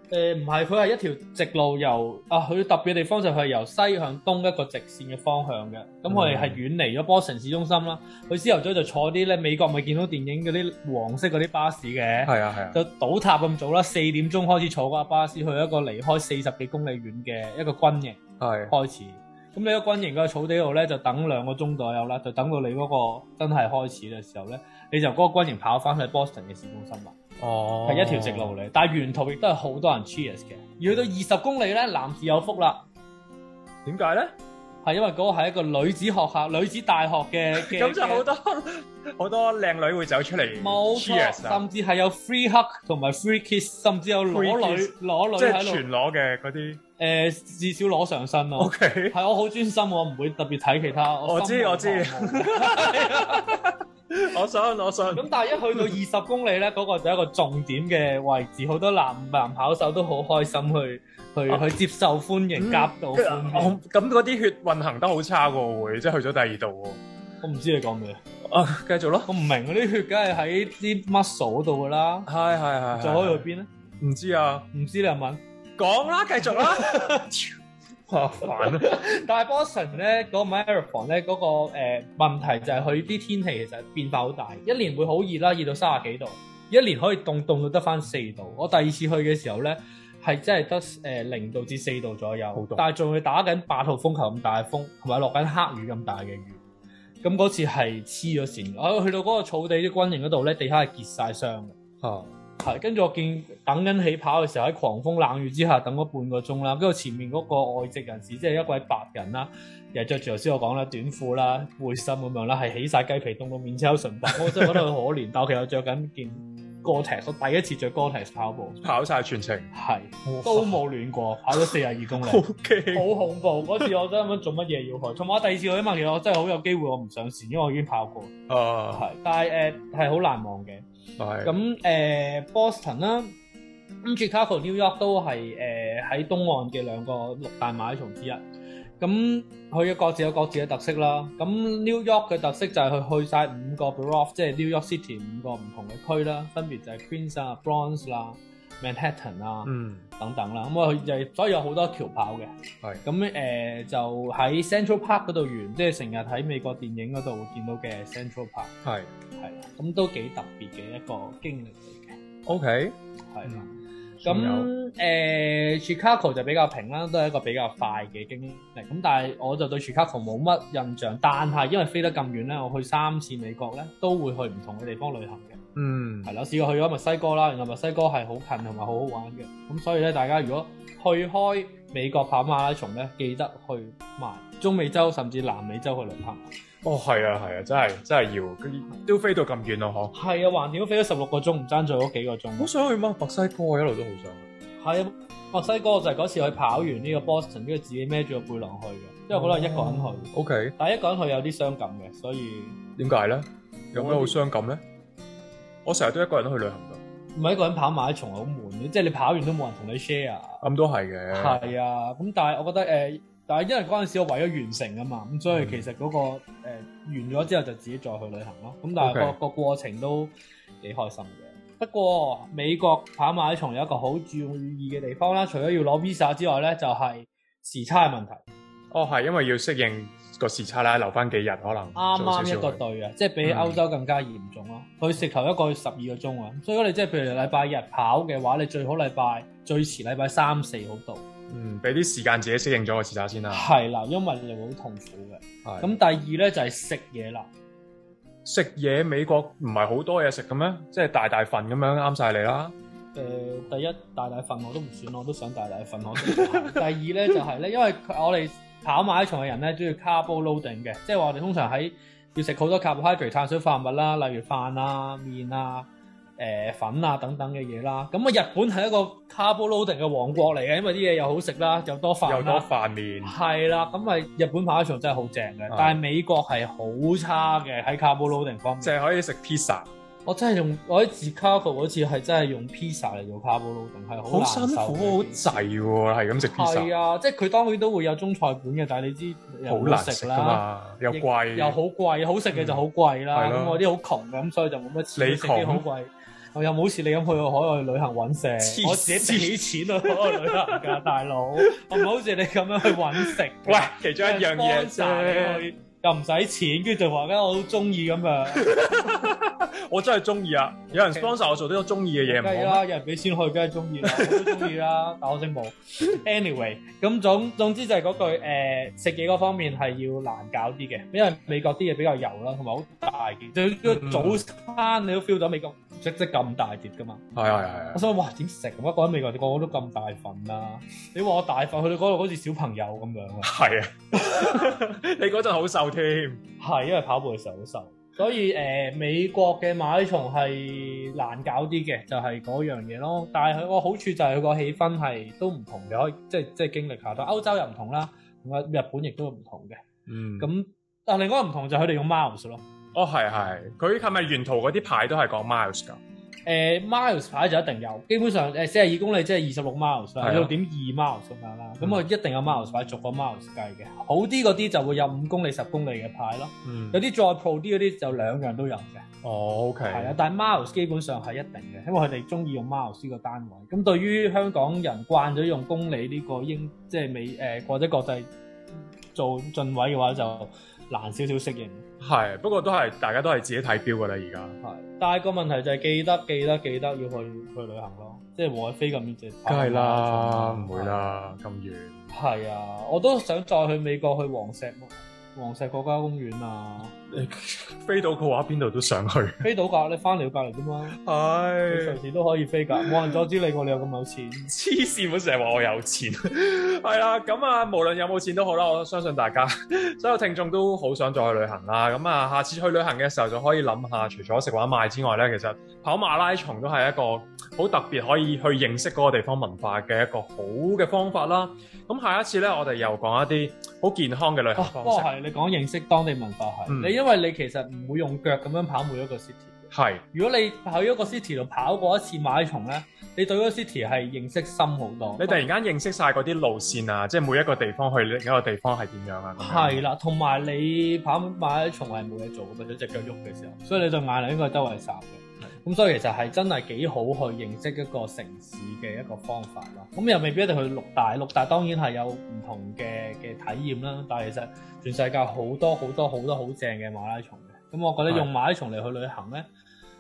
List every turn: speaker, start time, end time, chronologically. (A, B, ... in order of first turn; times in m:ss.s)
0:00.1-0:27.2 A
0:06.1-0:06.6 B
0:12.2-0:12.8 B
0:18.4-0:18.7 B
0:27.4-0:28.5 B
0:27.8-0:32.9 A
0:33.8-0:34.3 B
0:34.8-0:38.2 A
0:37.6-0:41.6 B
0:40.6-0:45.8 A
0:44.3-0:46.8 B
0:47.0-0:53.5 A
0:48.6-0:49.2 B
0:51.2-0:56.0 B
0:55.1-1:03.8 A
1:02.6-1:07.0 B
1:07.4-1:08.2 A
1:08.5-1:09.3 B
1:09.3-1:12.3 A
1:12.3-1:13.4 B
1:12.9-1:13.7 A
1:14.0-1:14.7 B
1:14.7-1:15.4 A
1:15.8-1:17.5 B
1:16.4-1:17.3 A
1:18.1-1:19.0 B
1:18.4-1:36.6 A
1:32.6-1:32.8 B
1:37.2-1:41.8 A
1:42.0-1:42.3 B
1:42.6-1:58.8 A
1:54.3-1:54.9 B
1:58.8-1:59.7 B
1:59.7-2:08.3 A
2:00.3-2:00.8 B
2:02.2-2:03.1 B
2:08.5-2:09.0 B
2:08.9-2:10.9 A
2:11.2-2:11.5 B
2:11.4-2:13.4 A
2:14.0-2:18.4 A
2:19.0-2:32.5 A
2:29.6-2:30.0 B
2:33.0-2:38.7 A
2:38.8-2:39.1 B
2:39.4-2:42.2 A
2:42.5-2:43.6 B
2:43.3-2:55.6 A
2:44.2-2:44.7 B
2:55.8-2:56.3 B
2:56.2-3:06.5 A
3:06.8-3:10.1 B
3:10.1-3:12.7 A
3:12.6-3:14.4 B
3:14.8-3:22.8 A
3:19.3-3:20.8 B
3:23.0-3:24.8 B
3:23.9-3:24.4 A
3:25.8-3:27.0 B
3:27.4-3:30.6 A
3:30.6-3:31.6 B
3:31.3-3:48.4 A
3:35.5-3:35.8 B
3:39.0-3:39.4 B
3:48.9-3:52.8 B
3:52.0-4:01.2 A
3:53.4-3:53.8 B
4:01.5-4:03.7 B
4:03.5-4:07.5 A
4:05.6-4:06.0 B
4:08.4-4:12.8 B
4:13.1-4:32.7 A
4:16.2-4:16.8 B
4:32.3-4:33.3 B
4:33.2-4:38.9 A
4:35.7-4:36.0 B
4:38.8-4:39.9 B
4:40.2-4:45.6 A
4:44.3-4:46.9 B
4:46.4-5:08.8 A
4:49.7-4:51.8 B
4:52.5-4:53.8 B
4:55.2-4:55.8 B
4:58.6-5:01.0 B
5:01.7-5:02.0 B
5:03.2-5:05.6 B
5:08.6-5:12.8 B
5:10.9-5:11.3 A
5:12.2-5:27.2 A
5:14.1-5:14.7 B
5:23.8-5:24.4 B
5:27.4-5:28.0 B
5:27.9-5:33.5 A
5:33.4-5:36.4 B
5:36.6-5:49.8 A
5:50.1-5:50.5 B
5:50.4-5:52.6 A
5:53.0-5:56.0 B
5:56.5-6:09.1 A
6:00.2-6:00.5 B
6:01.8-6:02.1 B
6:06.6-6:07.0 B
6:09.2-6:10.2 B
6:09.9-6:18.3 A
6:19.1-6:21.8 A
6:22.0-6:24.6 B
6:24.6-6:31.2 A
6:29.5-6:32.0 B
6:32.1-6:36.9 A
6:37.1-6:39.5 B
6:39.4-6:41.0 A
6:41.0-6:42.0 B
6:41.7-6:44.5 A
6:42.8-6:43.2 B
6:44.5-7:05.1 B
7:04.6-7:09.6 A
7:06.7-7:07.0 B
7:09.7-7:10.0 B
7:10.1-7:15.4 A
7:15.2-7:19.8 B
7:19.4-7:39.5 A